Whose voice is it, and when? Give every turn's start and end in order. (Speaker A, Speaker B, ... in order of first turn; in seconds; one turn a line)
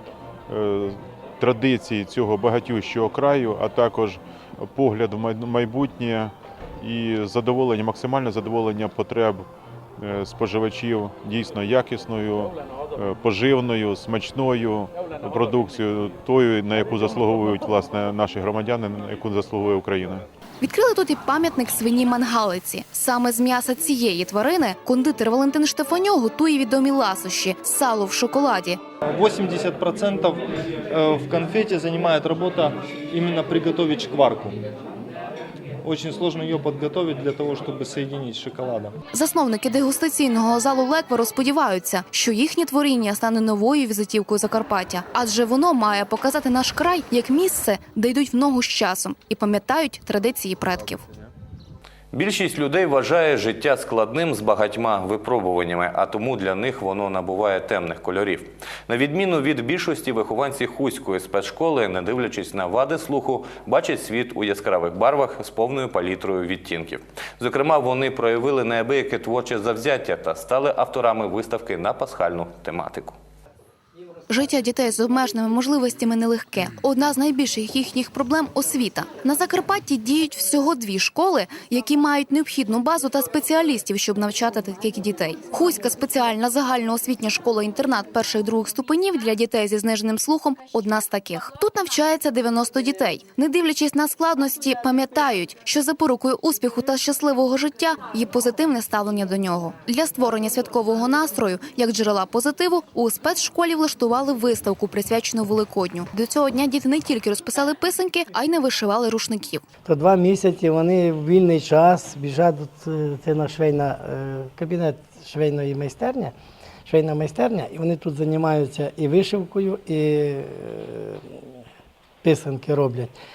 Speaker A: 0.5-20.2
Speaker B: 20.6-28.8
Speaker C: 29.1-34.6
Speaker C: 35.8-39.0
Speaker B: 39.1-51.0
Speaker D: 52.1-73.2
Speaker B: 74.3-109.6
Speaker E: 109.8-116.3
Speaker E: 116.8-121.5
Speaker E: 122.2-123.2